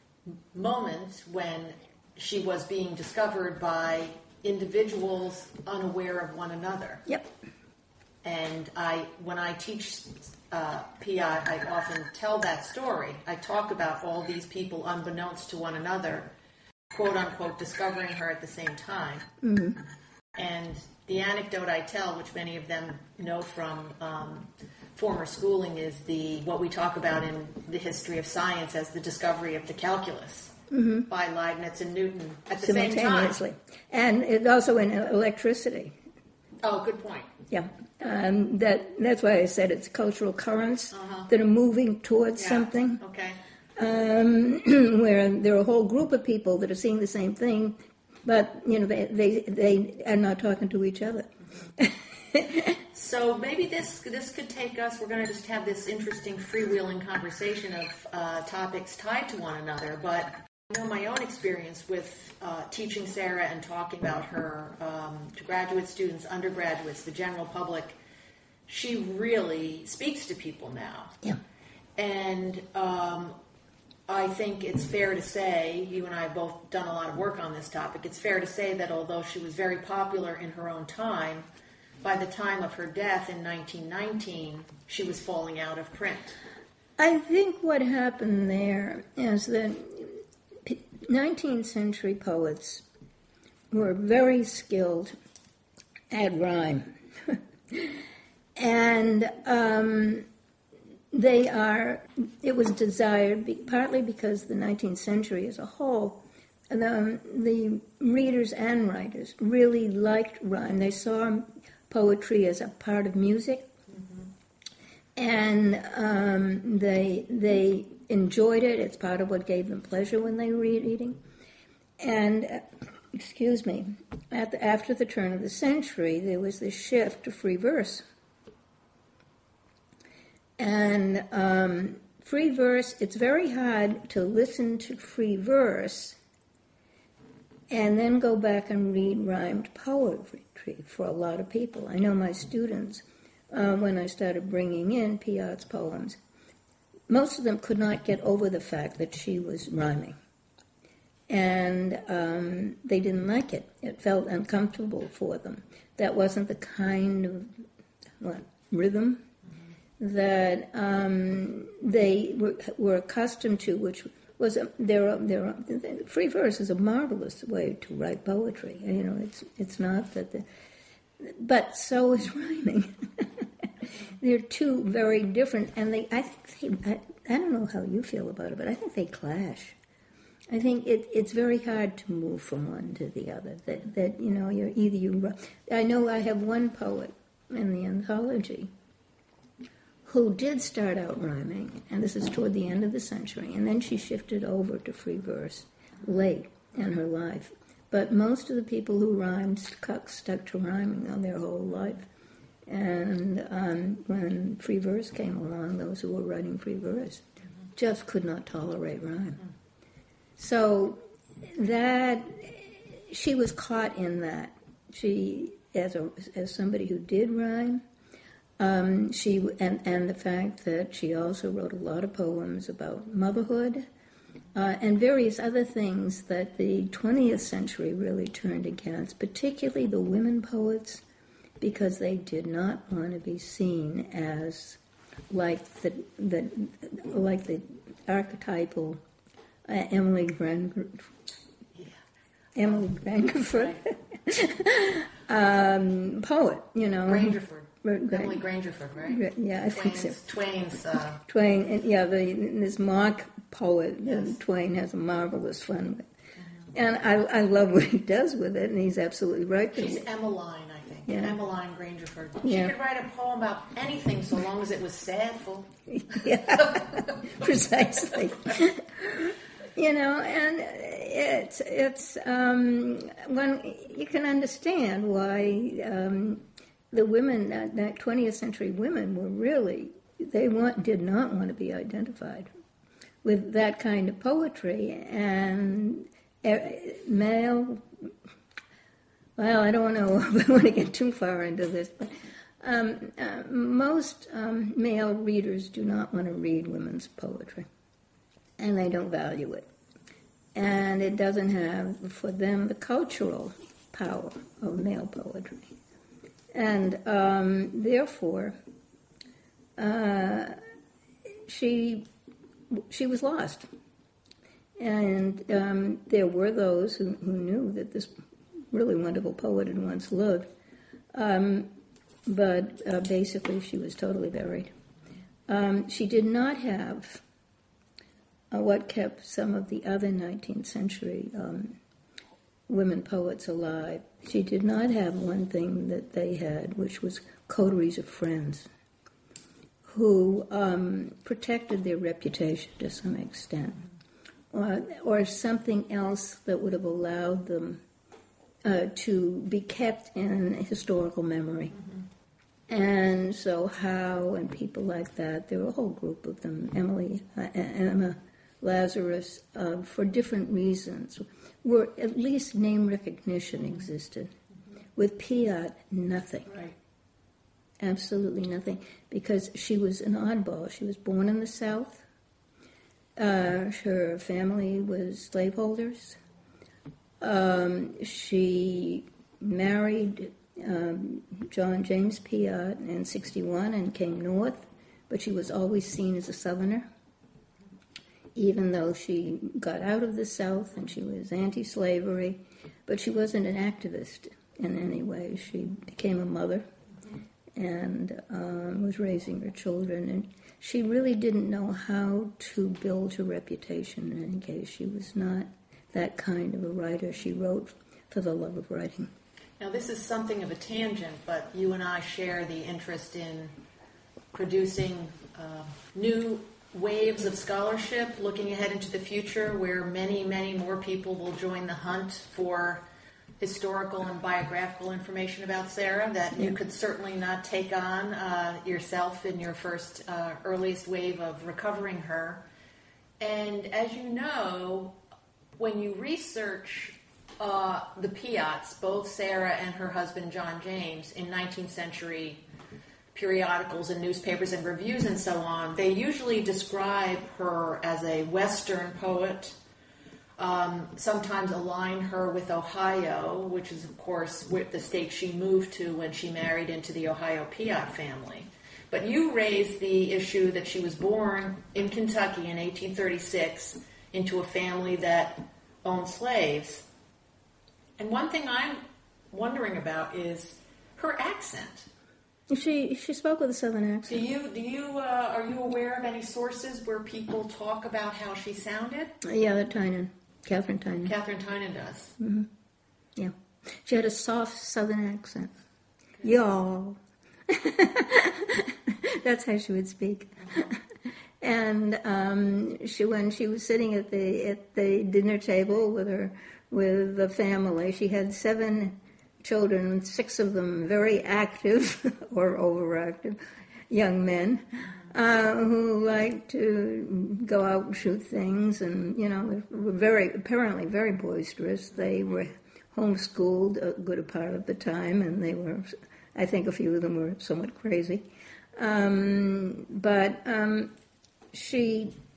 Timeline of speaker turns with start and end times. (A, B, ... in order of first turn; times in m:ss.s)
0:00.3-0:07.0 A
0:08.2-0:16.3 A
0:16.9-0:19.3 A
0:19.4-0:19.8 B
0:20.3-0:30.6 A
0:30.7-0:31.1 B
0:31.1-0:33.4 A
0:32.6-0:36.0 B
0:36.6-0:37.3 A
0:37.5-0:43.0 B
0:40.9-0:41.3 A
0:42.4-0:43.4 A
0:43.8-0:52.8 B
0:52.9-1:08.0 A
1:08.7-1:11.2 A
1:12.0-1:13.4 A
1:14.1-1:21.5 A
1:22.0-1:26.4 A
1:27.0-1:32.8 B
1:33.7-1:35.1 B
1:36.1-1:38.0 B
1:38.6-1:40.3 B
1:41.1-1:53.7 B
1:55.2-2:01.2 B
2:02.0-2:08.0 B
2:10.6-2:16.2 B
2:17.7-2:26.2 B
2:27.1-2:30.2 B
2:31.3-2:37.6 B
2:38.2-2:39.2 B
2:40.0-2:50.4 B
2:51.2-2:59.8 B
3:00.5-3:08.7 B
3:10.0-3:22.1 B
3:22.6-3:29.4 B
3:30.4-3:37.8 B
3:38.6-3:43.9 B
3:44.5-3:51.0 B
3:51.6-3:59.0 B
3:59.6-4:01.1 B
4:02.6-4:08.4 B
4:07.1-4:11.2 A
4:09.0-4:10.2 B
4:11.2-4:16.1 B
4:16.7-4:20.0 B
4:19.7-4:26.8 A
4:21.1-4:21.4 B
4:22.4-4:22.7 B
4:25.9-4:42.5 B
4:43.2-4:48.1 B
4:49.4-4:57.7 B
4:58.6-4:59.7 B
5:00.5-5:05.8 B
5:06.5-5:08.6 B
5:09.8-5:10.5 B
5:11.3-5:12.1 B
5:12.7-5:13.7 B
5:14.8-5:18.1 B
5:18.7-5:20.4 B
5:21.1-5:21.7 B
5:22.2-5:24.7 B
5:25.5-5:27.2 B
5:28.5-5:31.8 B
5:32.7-5:38.7 B
5:39.8-5:43.8 B
5:44.5-5:47.8 B
5:48.6-5:51.8 B
5:52.7-6:04.3 B
6:05.0-6:06.5 B
6:06.5-6:06.7 A
6:07.8-6:12.0 B
6:13.2-6:16.2 B
6:17.2-6:26.9 B
6:28.3-6:36.6 B
6:37.5-6:49.1 B
6:49.6-6:53.5 A
6:54.3-7:02.8 A
7:03.4-7:12.4 A
7:13.2-7:14.9 A
7:15.6-7:22.4 A
7:23.1-7:29.6 A
7:30.4-7:46.8 A
7:48.0-7:51.9 A
7:52.5-7:54.2 B
7:54.1-7:59.1 A
7:59.2-8:01.1 B
8:01.0-8:02.2 A
8:02.2-8:02.5 B
8:03.2-8:05.5 B
8:06.2-8:10.8 B
8:11.4-8:40.9 B
8:41.5-8:42.1 B